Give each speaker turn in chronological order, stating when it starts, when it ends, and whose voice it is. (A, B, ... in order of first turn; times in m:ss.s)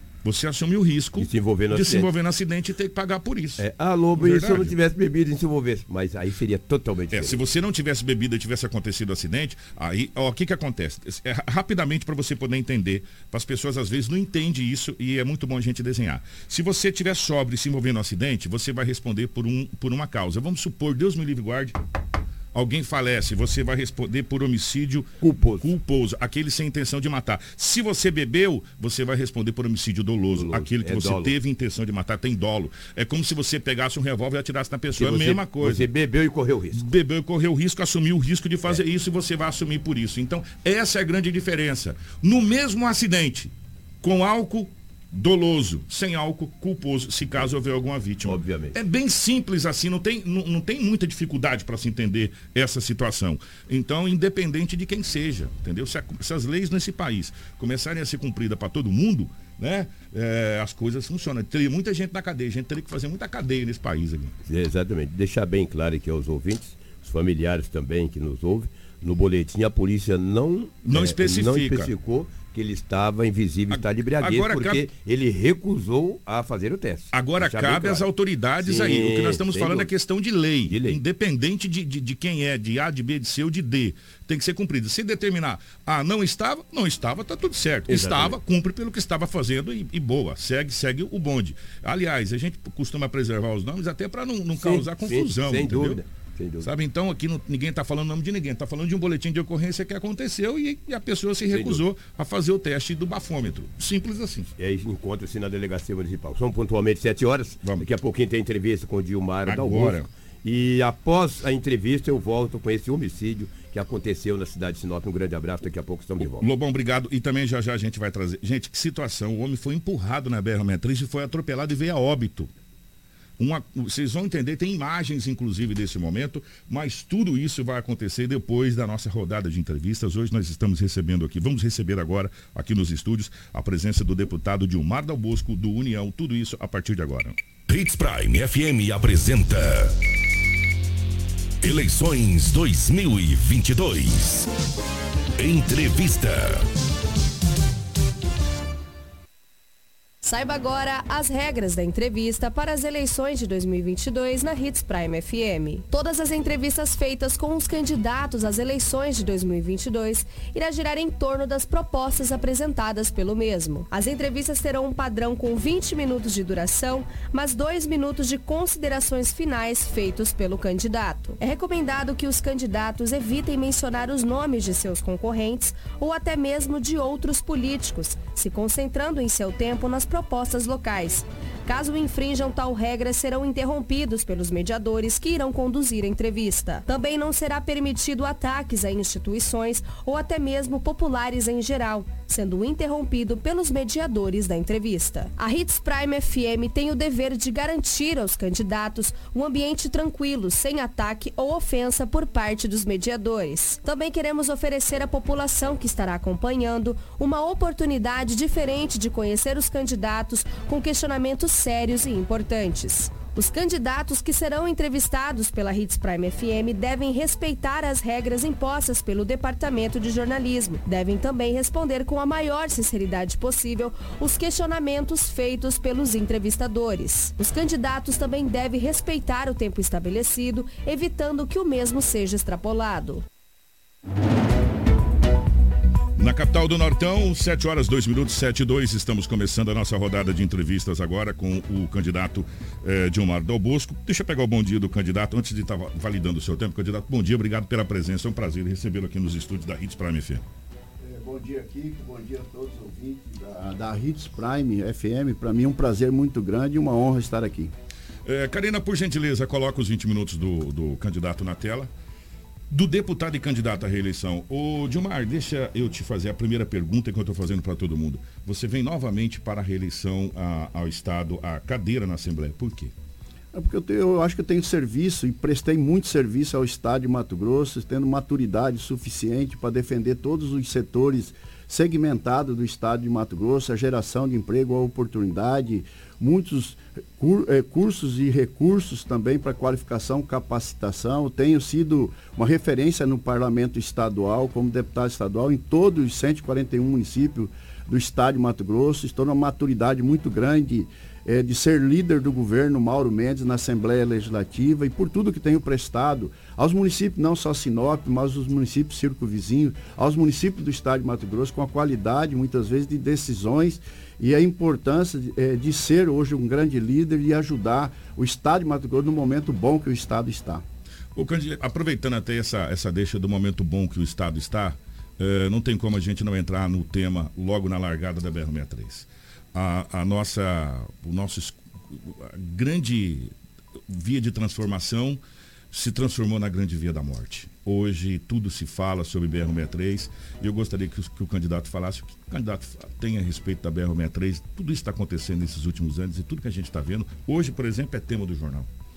0:00.2-0:03.6 A
0:01.2-0:02.1 B
0:03.6-0:07.4 B
0:04.2-0:04.8 A
0:07.1-0:21.8 A
0:22.5-0:35.9 A
0:25.2-0:25.7 B
0:30.3-0:31.4 B
0:34.9-0:36.9 B
0:36.7-1:04.4 A
0:48.2-0:48.8 B
1:04.4-1:18.1 B
1:10.8-1:11.9 A
1:13.7-1:14.9 A
1:17.1-1:36.0 A
1:18.6-1:19.9 B
1:20.7-1:21.0 B
1:27.9-1:28.4 B
1:34.6-1:36.7 B
1:36.6-1:44.5 A
1:41.5-1:41.8 B
1:44.6-1:56.5 B
1:49.5-1:50.1 A
1:56.2-2:02.5 A
2:03.4-2:17.4 A
2:17.7-2:20.0 C
2:21.6-2:24.5 C
2:25.4-2:26.6 C
2:30.2-3:53.2 D
3:56.2-4:10.4 A
4:11.0-4:17.7 E
4:18.3-4:21.9 A
4:22.7-4:32.9 A
4:33.5-5:20.6 E
5:21.2-5:33.3 A
5:33.9-5:35.2 A
5:35.7-5:48.7 A